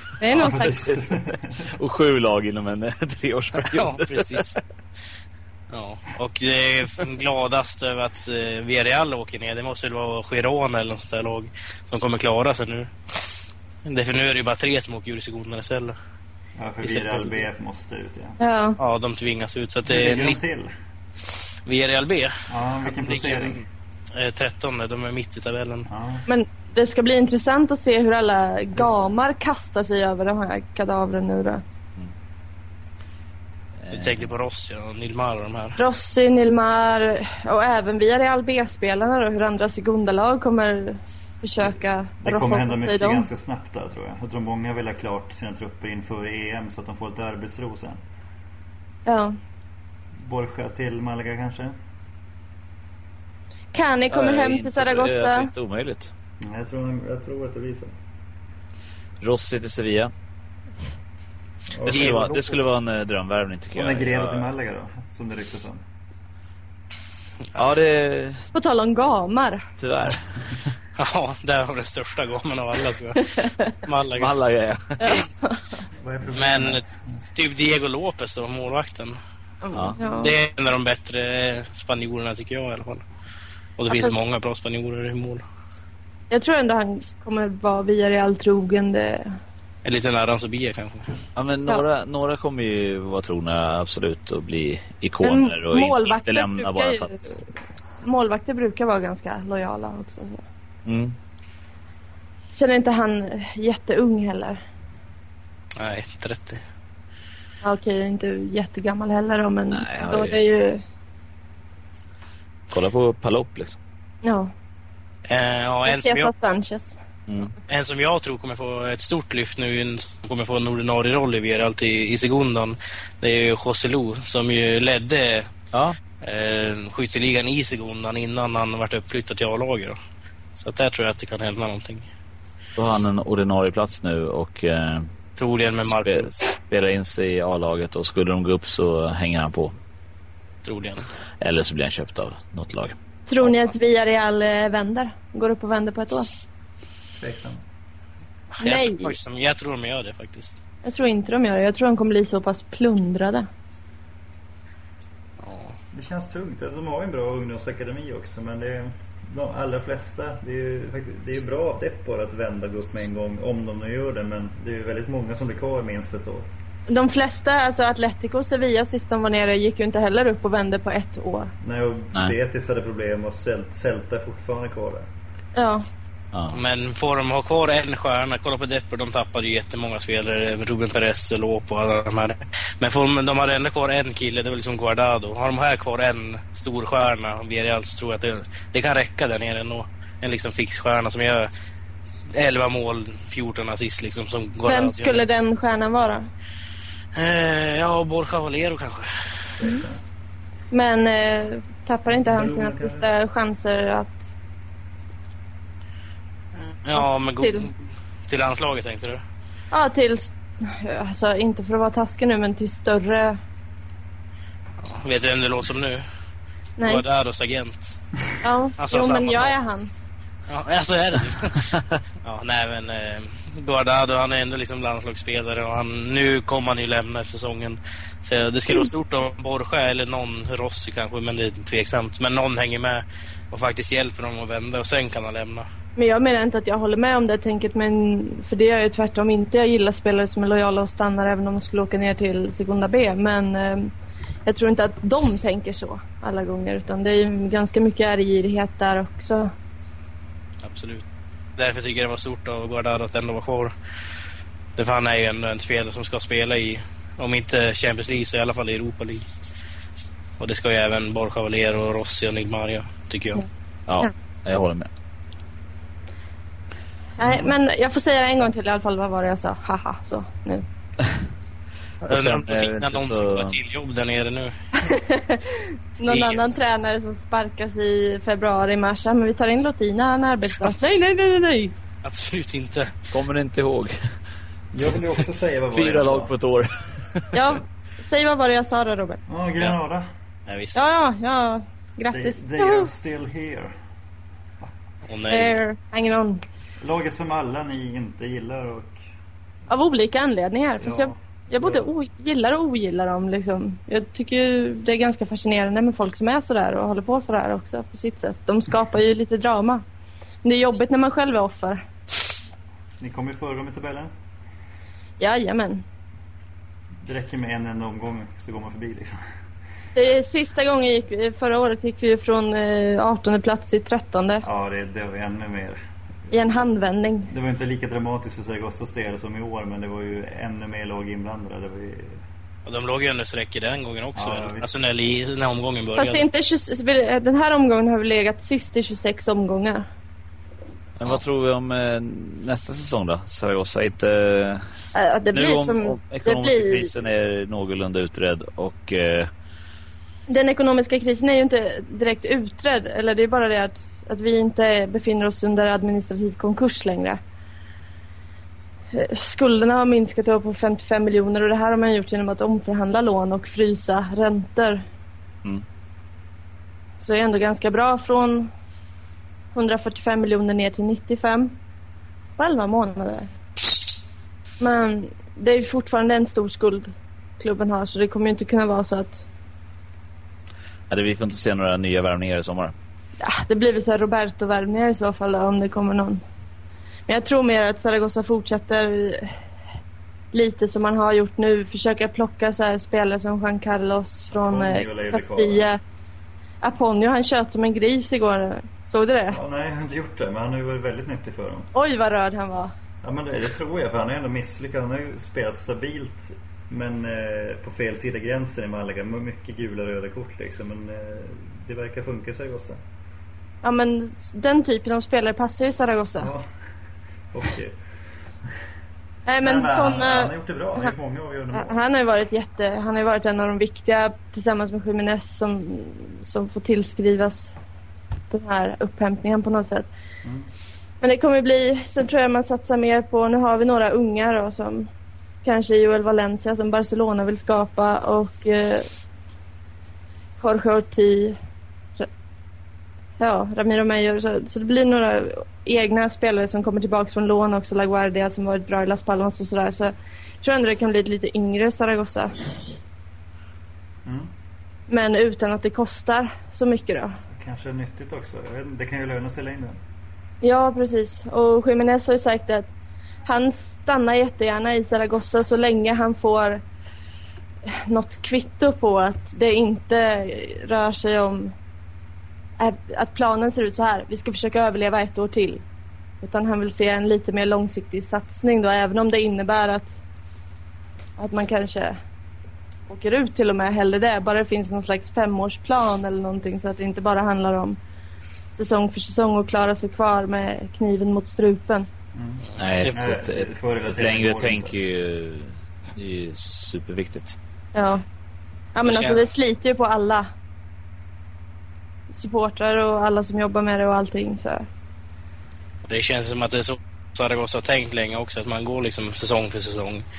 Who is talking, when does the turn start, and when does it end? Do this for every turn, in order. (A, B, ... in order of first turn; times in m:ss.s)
0:00.2-0:00.9 A
0:00.3-0:01.2 B
0:00.3-0:01.7 C
0:01.7-0:04.5 B
0:03.6-0:04.6 D
0:05.7-0:16.0 D
0:16.6-0:18.4 C
0:16.8-0:17.5 D
0:18.4-0:18.8 A
0:18.8-0:20.4 D
0:19.8-0:20.7 C
0:21.6-0:25.9 D
0:22.5-0:23.6 C
0:25.9-0:26.2 C
0:26.3-0:31.6 A
0:33.8-0:34.3 B
0:33.9-0:35.8 D
0:35.8-0:43.3 A
0:42.2-0:48.0 C
0:49.0-0:49.4 A
0:50.2-0:51.7 C
0:53.7-0:55.5 A
0:54.1-0:56.1 B
0:56.4-0:57.9 C
0:59.2-1:00.1 B
1:01.7-1:02.5 C
1:01.8-1:04.5 B
1:01.8-1:02.5 D
1:03.7-1:05.8 C
1:07.5-1:08.5 B
1:08.5-1:09.7 A
1:09.8-1:10.7 B
1:11.0-1:14.3 D
1:13.2-1:13.8 A
1:14.2-1:15.2 B
1:15.0-1:15.8 A
1:16.0-1:17.1 C
1:16.3-1:16.8 D
1:17.3-1:19.2 D
1:19.6-1:20.3 A
1:19.7-1:20.0 B
1:20.0-1:23.0 D
1:23.8-1:25.4 D
1:26.3-1:29.3 A
1:29.8-1:31.2 D
1:31.3-1:37.4 B
1:35.2-1:37.4 A
1:38.0-1:40.4 A
1:40.8-1:41.2 B
1:42.5-1:44.6 A
1:45.8-1:46.6 D
1:47.6-1:50.8 A
1:49.7-1:50.4 B
1:52.7-1:53.8 B
1:54.2-1:54.5 A
1:55.3-1:56.3 D
1:55.9-1:57.0 A
1:57.3-1:57.5 B
1:57.7-2:05.5 D
2:05.7-2:06.0 B
2:06.2-2:10.0 D
2:10.6-2:12.0 D
2:12.8-2:15.1 B
2:15.4-2:16.3 D
2:15.8-2:19.7 B
2:20.6-2:21.1 D
2:21.4-2:22.9 B
2:23.3-2:26.3 A
2:27.2-2:27.6 C
2:28.6-2:30.6 D
2:28.6-2:29.2 A
2:30.8-2:33.5 A
2:35.4-2:35.7 D
2:35.9-2:46.5 C
2:46.9-2:51.5 A
2:51.6-2:55.0 C
2:55.5-2:55.8 A
2:56.3-2:56.6 B
2:56.5-3:11.5 D
3:12.3-3:15.2 D
3:14.6-3:16.3 A
3:17.1-3:19.5 D
3:19.6-3:20.0 C
3:20.7-3:24.3 A
3:22.1-3:23.1 C
3:26.8-3:29.2 D
3:26.9-3:27.7 A
3:29.7-3:33.4 A
3:34.8-3:36.0 D
3:36.8-3:37.0 A
3:36.8-3:38.0 D
3:38.4-3:39.9 A
3:38.8-3:39.6 D
3:40.5-3:55.6 D
3:41.7-3:42.0 B
3:56.0-4:03.9 A
4:04.4-4:09.5 A
4:10.6-4:11.0 D
4:11.6-4:13.7 D
4:14.8-4:19.2 D
4:20.4-4:23.4 D
4:23.9-4:24.9 B
4:27.2-4:30.6 A
4:32.0-4:34.5 D
4:32.0-4:33.6 B
4:34.8-4:41.7 A
4:36.0-4:36.5 D
4:42.0-4:42.9 D
4:43.1-4:44.0 B
4:44.7-4:46.3 C
4:45.7-4:47.4 B
4:47.3-4:49.2 A
4:49.3-4:50.1 C
4:50.5-4:50.8 D
4:50.7-4:52.9 A
4:52.1-4:53.7 C
4:55.0-4:55.6 D
4:55.3-4:56.4 A
4:56.8-4:59.0 C
4:59.7-5:09.8 A
5:00.8-5:01.9 C
5:10.4-5:11.8 A
5:13.0-5:14.1 C
5:15.2-5:15.8 A
5:17.0-5:19.2 C
5:19.9-5:24.4 A
5:24.4-5:25.8 C
5:26.3-5:27.3 A
5:27.3-5:32.2 C
5:32.6-5:36.2 D
5:34.1-5:34.7 C
5:36.0-5:39.8 A
5:41.0-5:44.6 B
5:44.9-5:46.9 A
5:45.3-5:49.3 B
5:50.3-5:57.2 A
5:58.9-6:04.8 A
6:07.0-6:08.5 A
6:09.5-6:11.5 A
6:12.4-6:13.3 A
6:14.6-6:19.2 A
6:20.9-6:22.7 B
6:23.2-6:26.2 A
6:27.1-6:29.4 A
6:30.3-6:35.8 A
6:34.3-6:35.7 C
6:36.6-6:39.4 A
6:39.3-6:41.7 C
6:41.7-6:42.7 A
6:43.0-6:52.8 C
6:53.6-6:56.3 A
6:56.2-6:56.4 C
6:57.3-6:57.8 C
6:59.3-7:00.9 A
6:59.4-7:01.8 C
7:01.5-7:07.5 A
7:08.3-7:09.9 A
7:11.0-7:14.9 A
7:15.4-7:18.9 A
7:20.4-7:21.4 A
7:23.2-7:32.5 A
7:34.9-7:37.2 A
7:37.3-7:39.8 C
7:40.4-7:42.7 A
7:43.2-7:46.6 A
7:47.7-7:51.5 A
7:52.6-7:55.6 A
7:56.2-7:59.9 A
8:01.2-8:02.0 A
8:02.9-8:07.8 A
8:08.5-8:11.9 A
8:12.1-8:14.7 C
8:12.6-8:17.4 B
8:17.7-8:18.0 A
8:18.7-8:20.3 A
8:18.8-8:19.3 D
8:22.1-8:24.6 A
8:25.8-8:30.0 D